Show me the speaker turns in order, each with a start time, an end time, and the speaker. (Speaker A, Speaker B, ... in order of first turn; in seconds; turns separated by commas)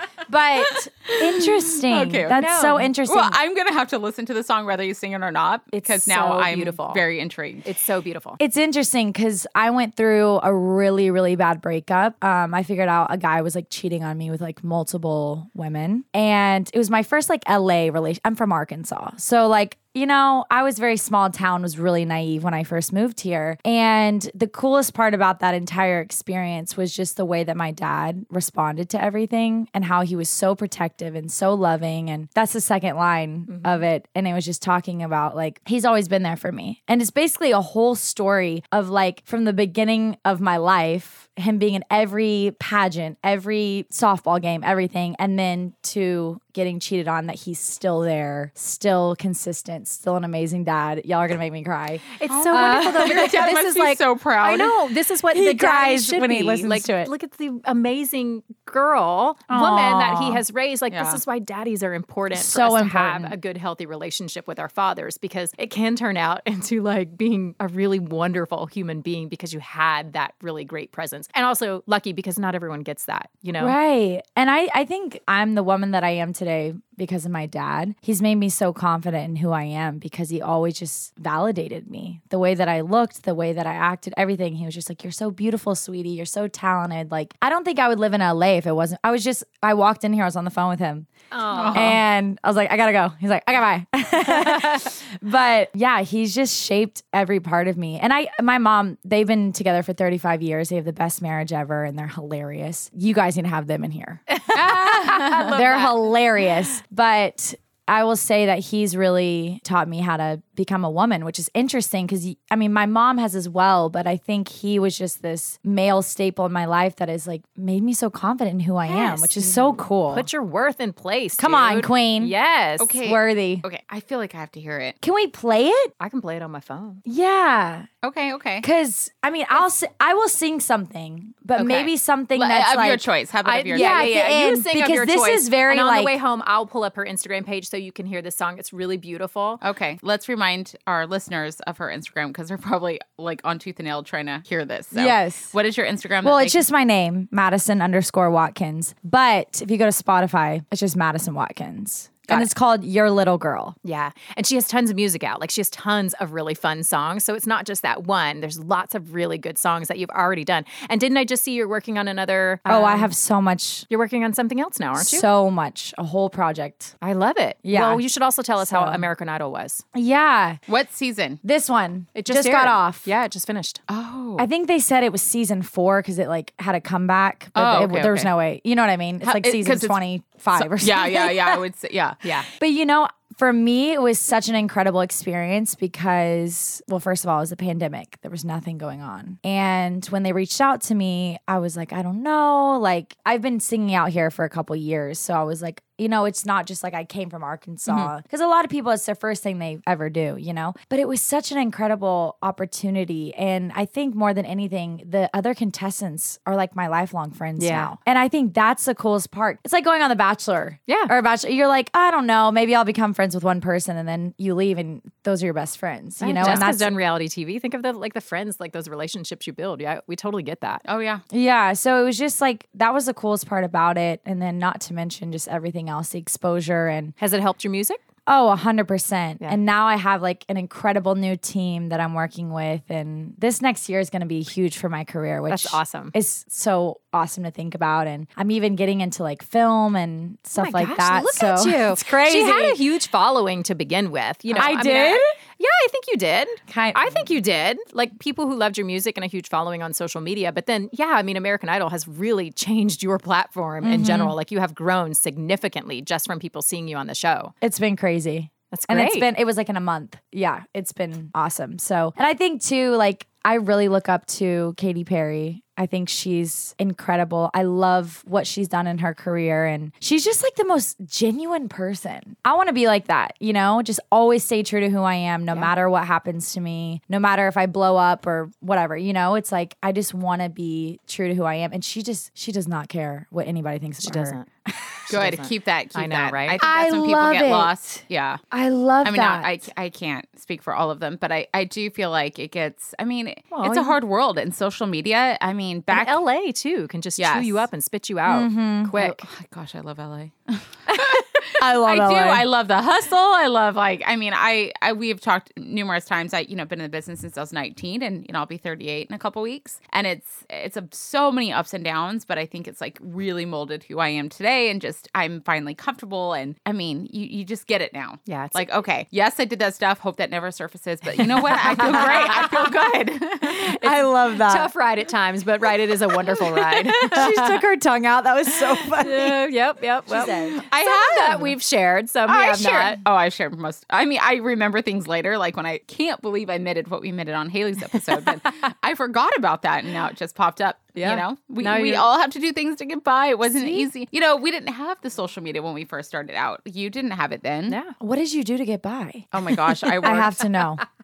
Speaker A: 0.3-3.4, Speaker B: 0.6-2.5, Speaker C: 2.3-2.9, Speaker B: 3.0-7.7, Speaker A: 5.7-6.1, Speaker C: 6.1-7.0, Speaker C: 7.6-8.4, Speaker A: 8.4-53.5, Speaker C: 33.5-33.7, Speaker C: 52.2-73.8, Speaker B: 52.5-54.8, Speaker A: 55.3-57.1, Speaker A: 59.5-60.4, Speaker B: 60.9-61.2, Speaker A: 62.3-63.4, Speaker A: 73.6-91.1, Speaker C: 91.3-92.0, Speaker B: 91.5-92.0, Speaker A: 91.7-120.3, Speaker C: 94.4-94.8, Speaker C: 104.4-105.9, Speaker B: 104.5-105.6, Speaker C: 118.9-123.0, Speaker A: 121.4-122.3, Speaker B: 122.8-125.0, Speaker A: 123.0-123.7, Speaker A: 125.0-125.9, Speaker C: 126.0-127.0, Speaker A: 127.0-127.9, Speaker B: 128.0-128.7, Speaker A: 128.6-133.1, Speaker C: 131.6-131.9, Speaker B: 132.3-134.2, Speaker C: 133.4-139.6, Speaker A: 133.7-136.2, Speaker B: 139.6-146.6, Speaker A: 144.9-145.5, Speaker A: 146.2-153.8, Speaker C: 153.8-163.1, Speaker A: 162.7-163.9, Speaker C: 163.9-165.3, Speaker A: 165.0-166.9, Speaker C: 167.0-169.8, Speaker A: 167.6-168.0, Speaker A: 168.6-169.1, Speaker A: 169.9-170.6, Speaker B: 170.7-171.4, Speaker A: 171.4-173.1, Speaker C: 172.2-173.8, Speaker B: 173.9-174.5, Speaker A: 174.4-181.6, Speaker B: 177.6-178.3, Speaker B: 179.2-180.0, Speaker B: 180.5-182.2, Speaker C: 182.2-182.5, Speaker A: 182.6-216.9, Speaker C: 197.9-198.1, Speaker C: 207.6-208.0, Speaker C: 216.2-220.8, Speaker B: 216.4-216.7, Speaker B: 220.8-221.2, Speaker A: 221.3-227.1, Speaker C: 227.2-228.0, Speaker A: 228.3-242.8, Speaker C: 235.5-236.1, Speaker C: 240.6-257.5, Speaker A: 244.5-245.3, Speaker A: 246.7-247.3, Speaker A: 253.8-254.4, Speaker A: 257.6-285.0, Speaker C: 258.7-259.3, Speaker C: 284.0-284.5, Speaker C: 285.1-286.6, Speaker B: 285.1-288.4, Speaker A: 286.6-289.6, Speaker B: 289.0-296.2, Speaker C: 293.5-294.0, Speaker C: 295.9-299.2, Speaker B: 297.2-297.7, Speaker A: 298.3-298.9, Speaker B: 299.0-323.7, Speaker A: 301.6-302.5, Speaker C: 318.3-318.7, Speaker C: 321.6-322.7, Speaker A: 321.7-322.4, Speaker C: 323.5-327.6, Speaker A: 323.7-324.7, Speaker A: 326.6-329.5, Speaker C: 328.9-333.0, Speaker A: 330.1-330.6, Speaker B: 330.5-331.5, Speaker B: 332.3-347.8, Speaker C: 341.0-342.1, Speaker C: 347.7-348.0, Speaker A: 348.0-349.3, Speaker B: 349.3-350.4, Speaker A: 349.9-350.8